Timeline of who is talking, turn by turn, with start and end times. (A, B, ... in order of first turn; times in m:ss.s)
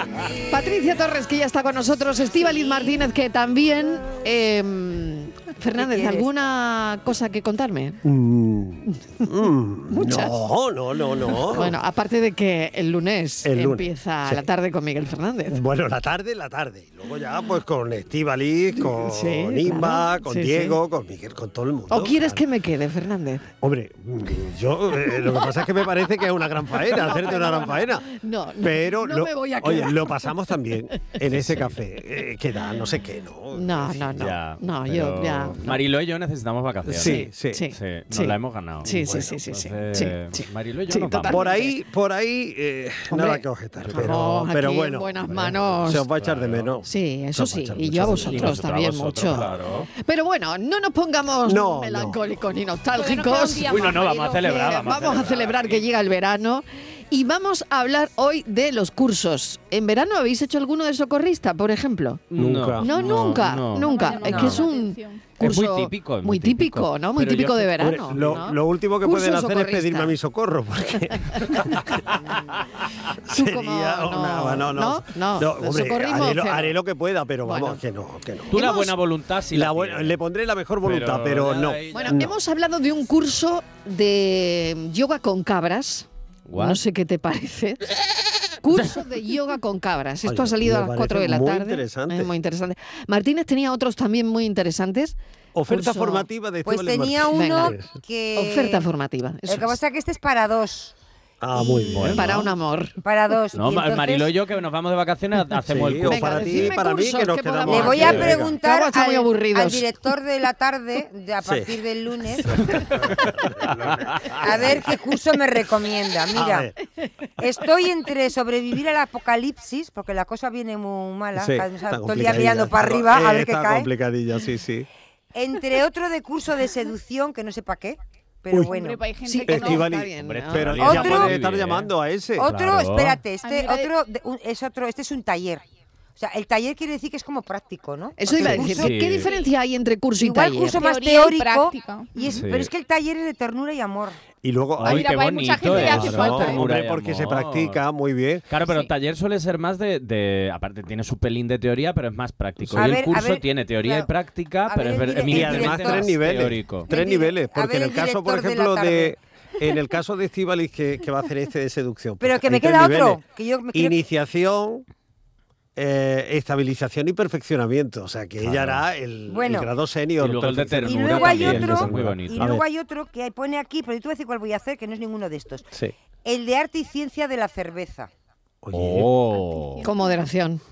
0:00.5-0:08.0 A
0:05.8-0:06.3 B
0:08.0-0:11.8 C
0:09.9-0:10.4 A
0:11.5-0:15.6 A
0:13.4-0:14.5 C
0:15.5-0:22.4 C
0:18.8-0:20.8 A
0:21.9-0:23.4 A
0:23.6-0:28.1 C
0:26.8-0:30.5 A
0:28.6-0:34.3 C
0:31.3-0:31.8 D
0:33.5-0:35.8 A
0:34.1-0:41.6 D
0:36.8-0:37.6 C
0:37.0-0:41.7 A
0:41.3-0:48.6 C
0:43.1-0:46.0 A
0:43.8-0:44.2 D
0:46.1-0:46.7 D
0:46.8-1:02.2 A
0:48.2-0:49.9 D
0:51.4-0:52.2 C
0:52.9-0:54.7 E
0:53.6-0:55.8 D
1:02.3-1:04.6 D
1:02.4-1:02.9 C
1:02.8-1:10.1 A
1:03.7-1:05.2 E
1:04.2-1:04.6 B
1:05.4-1:08.4 D
1:07.8-1:12.2 C
1:13.2-1:18.7 C
1:13.3-1:16.7 A
1:17.4-1:17.8 A
1:18.5-1:18.9 A
1:18.5-1:20.2 D
1:19.5-1:22.3 C
1:20.8-1:22.3 D
1:21.9-1:27.8 A
1:26.5-1:26.8 D
1:28.6-1:35.2 A
1:30.2-1:32.3 C
1:35.5-1:37.9 C
1:35.7-1:36.2 A
1:36.6-1:38.8 B
1:37.3-1:37.7 A
1:38.4-1:39.8 A
1:39.5-1:40.9 B
1:41.4-1:42.5 C
1:41.5-1:41.9 B
1:41.9-1:42.4 D
1:42.1-1:42.9 A
1:43.0-1:44.3 B
1:43.5-1:46.7 D
1:45.6-1:48.5 C
1:46.1-1:49.8 A
1:47.7-1:52.6 B
1:47.9-1:48.5 D
1:51.4-1:51.7 C
1:52.7-1:54.9 C
1:54.4-1:56.7 B
1:56.3-1:56.7 C
1:57.4-2:03.9 B
2:01.3-2:04.9 C
2:05.3-2:09.0 B
2:08.6-2:09.9 E
2:09.2-2:10.8 A
2:09.5-2:12.5 C
2:10.2-2:11.9 D
2:10.8-2:11.3 B
2:12.4-2:15.6 B
2:12.4-2:13.2 D
2:13.4-2:13.9 E
2:16.2-2:18.9 B
2:18.2-2:20.8 A
2:18.4-2:19.3 D
2:19.2-2:19.5 E
2:20.2-2:24.2 B
2:20.7-2:22.1 E
2:22.2-2:22.7 D
2:24.4-2:28.5 C
2:24.8-2:27.8 D
2:24.8-2:26.6 E
2:28.5-2:36.9 D
2:32.6-2:32.9 C
2:32.7-2:34.1 B
2:34.7-2:36.1 B
2:35.3-2:43.2 C
2:36.9-2:39.1 B
2:42.2-2:44.0 B
2:43.7-2:44.8 C
2:45.8-2:52.6 C
2:48.4-2:48.8 D
2:49.3-2:49.7 B
2:50.2-2:52.5 D
2:50.8-2:55.7 B
2:56.2-2:58.1 B
2:58.6-2:59.1 C
2:58.7-2:59.8 D
2:59.3-3:00.2 E
2:59.8-3:00.6 A